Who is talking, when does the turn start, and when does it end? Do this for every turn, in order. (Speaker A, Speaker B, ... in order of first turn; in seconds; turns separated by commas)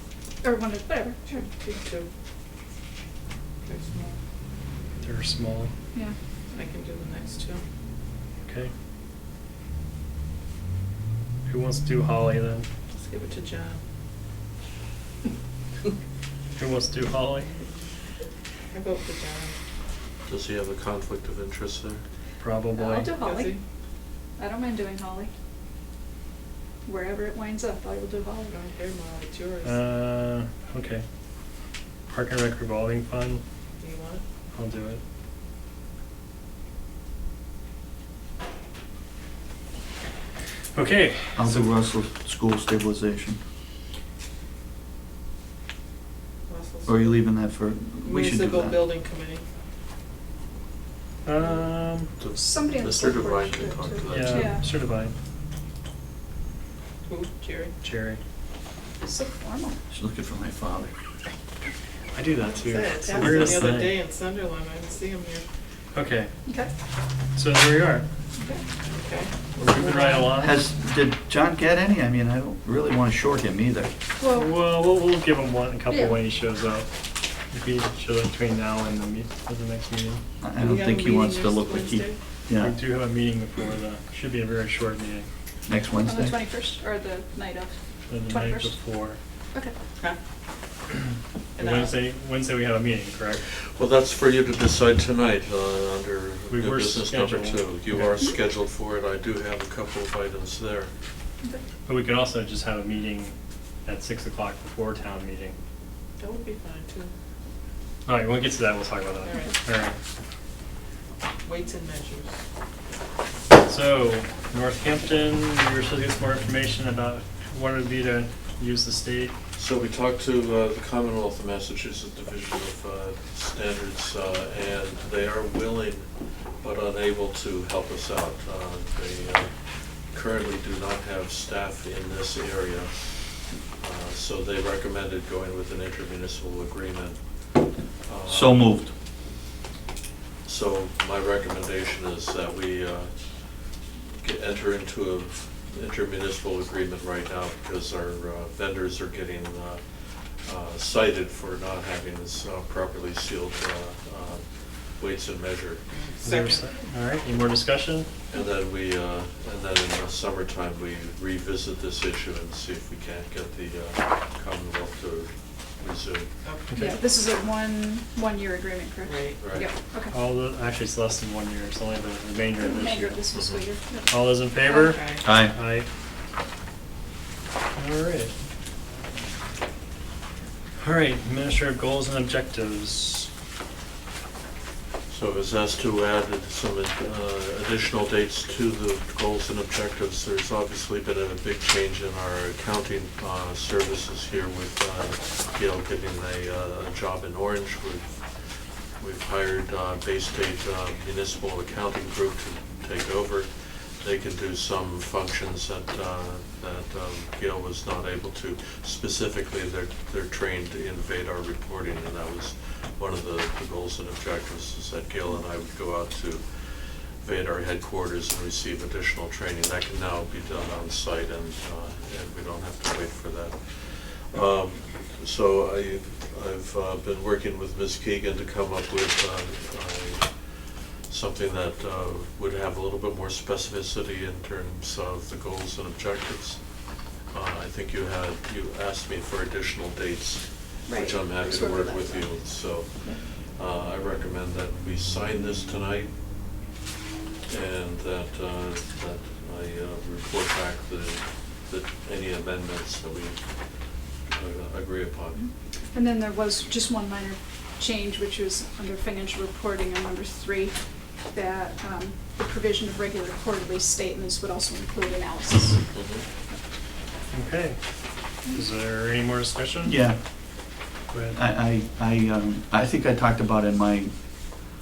Speaker A: 0.4-1.5, Speaker B: 1.3-2.1, Speaker B: 3.6-4.2, Speaker C: 5.0-5.7, Speaker B: 6.5-7.6, Speaker C: 8.4-8.7, Speaker C: 11.5-12.7, Speaker B: 12.9-13.8, Speaker C: 16.6-17.5, Speaker B: 18.7-19.5, Speaker D: 20.3-22.0, Speaker C: 22.4-23.1, Speaker A: 22.7-23.6, Speaker B: 23.1-23.6, Speaker A: 24.4-25.3, Speaker A: 26.8-28.6, Speaker B: 28.5-29.8, Speaker C: 29.6-31.1, Speaker C: 32.1-33.4, Speaker B: 33.8-34.2, Speaker C: 34.5-35.0, Speaker C: 40.7-41.7, Speaker E: 41.4-43.4, Speaker B: 46.5-47.2, Speaker E: 46.9-48.8, Speaker B: 48.0-49.4, Speaker C: 51.2-52.1, Speaker D: 52.2-54.6, Speaker A: 52.4-54.6, Speaker C: 54.1-55.1, Speaker B: 57.1-57.7, Speaker C: 57.8-58.2, Speaker A: 59.0-59.8, Speaker E: 59.9-60.9, Speaker C: 62.1-63.9, Speaker B: 62.3-65.4, Speaker C: 65.9-66.3, Speaker A: 66.5-66.7, Speaker C: 67.3-68.0, Speaker A: 68.4-68.6, Speaker B: 68.8-69.5, Speaker C: 69.6-70.6, Speaker A: 69.6-70.3, Speaker E: 70.3-73.9, Speaker A: 74.2-74.5, Speaker C: 74.3-76.9, Speaker A: 75.9-76.2, Speaker C: 77.5-80.2, Speaker E: 80.4-82.8, Speaker B: 80.6-82.2, Speaker C: 82.5-85.3, Speaker E: 85.7-86.3, Speaker A: 86.0-87.7, Speaker C: 88.1-89.2, Speaker A: 88.2-88.8, Speaker B: 91.5-91.9, Speaker C: 91.6-93.4, Speaker D: 93.6-100.9, Speaker C: 96.5-98.2, Speaker C: 101.8-105.5, Speaker B: 106.2-107.1, Speaker C: 108.0-110.0, Speaker B: 109.2-109.5, Speaker B: 111.4-112.3, Speaker C: 113.6-119.3, Speaker D: 119.5-138.8, Speaker E: 138.3-138.9, Speaker D: 140.4-155.8, Speaker B: 155.9-156.7, Speaker C: 156.2-158.1, Speaker D: 158.3-166.3, Speaker B: 166.4-167.0, Speaker C: 166.7-167.0, Speaker A: 166.7-170.1, Speaker B: 169.0-169.7, Speaker D: 169.4-169.7, Speaker C: 170.1-173.2, Speaker A: 172.6-174.2, Speaker D: 173.3-173.7, Speaker C: 174.1-175.9, Speaker B: 174.6-175.2, Speaker E: 175.2-175.6, Speaker C: 177.8-178.3, Speaker C: 180.8-183.3, Speaker D: 185.1-236.6, Speaker D: 237.3-246.1, Speaker A: 240.9-243.2, Speaker D: 247.5-253.4, Speaker D: 254.3-255.5, Speaker A: 255.3-265.9, Speaker D: 265.9-266.2, Speaker C: 267.3-267.8, Speaker C: 268.5-270.0, Speaker E: 269.8-270.2, Speaker C: 271.1-271.4, Speaker E: 271.3-274.1